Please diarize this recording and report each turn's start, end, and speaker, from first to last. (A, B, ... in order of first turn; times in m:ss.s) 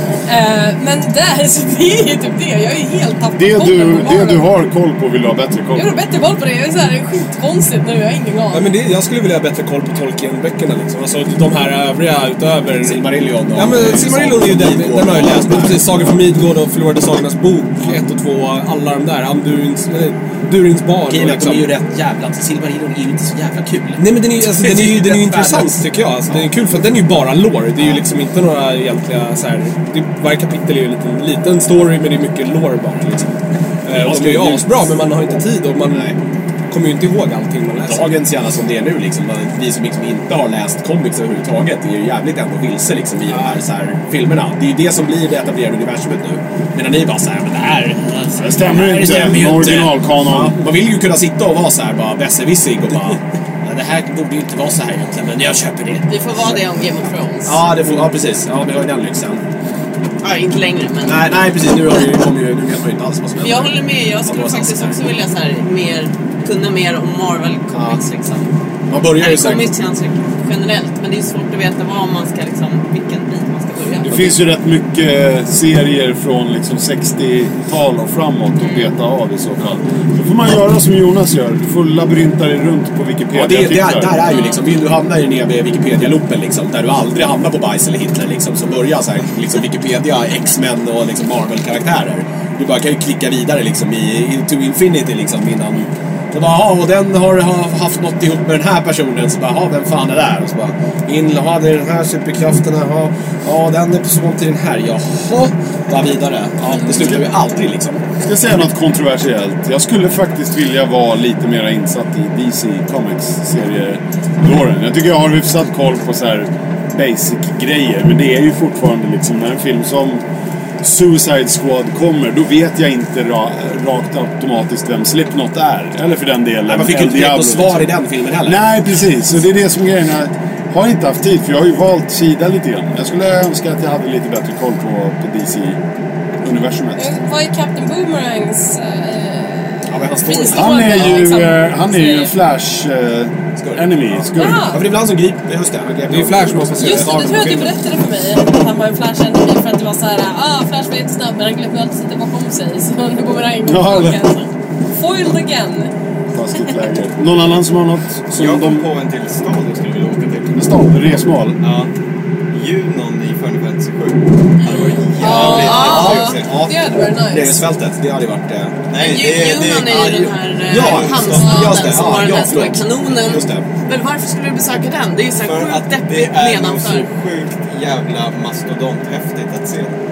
0:00.3-0:04.4 A
0:03.3-0:06.0 B
0:05.7-0:08.7 A
0:08.5-0:21.7 C
0:12.8-0:16.2 D
0:21.1-0:26.5 D
0:24.0-0:33.2 C
0:27.8-0:28.0 D
0:33.8-0:36.1 C
0:33.9-0:34.8 D
0:35.8-0:36.2 D
0:36.7-0:38.1 C
0:37.7-0:56.6 D
0:43.3-0:43.6 C
0:48.4-0:50.6 B
0:56.0-0:57.8 E
0:57.4-0:59.4 D
1:00.2-1:02.0 E
1:01.0-1:05.0 D
1:03.4-1:08.5 E
1:07.7-1:08.0 D
1:08.9-1:09.7 D
1:09.1-1:14.2 E
1:14.0-1:24.4 B
1:18.6-1:18.9 E
1:23.3-1:48.0 D
1:24.3-1:24.6 E
1:47.0-1:47.2 B
1:48.2-2:00.2 B
2:00.8-2:15.8 B
2:06.7-2:08.6 D
2:16.4-2:17.1 B
2:17.0-2:22.3 A
2:19.9-2:21.2 D
2:20.5-2:24.8 B
2:23.6-2:27.7 D
2:24.4-2:24.8 A
2:26.1-2:27.4 C
2:26.8-2:35.9 A
2:33.6-2:34.3 B
2:36.3-2:38.9 B
2:38.3-2:40.6 F
2:40.6-2:41.6 B
2:41.6-2:41.9 F
2:42.5-2:46.6 F
2:44.6-2:46.4 E
2:44.7-2:47.6 A
2:45.2-2:48.8 D
2:48.9-2:51.9 F
2:49.0-2:57.1 E
2:50.7-2:53.7 D
2:51.4-2:51.8 A
2:55.4-2:59.9 F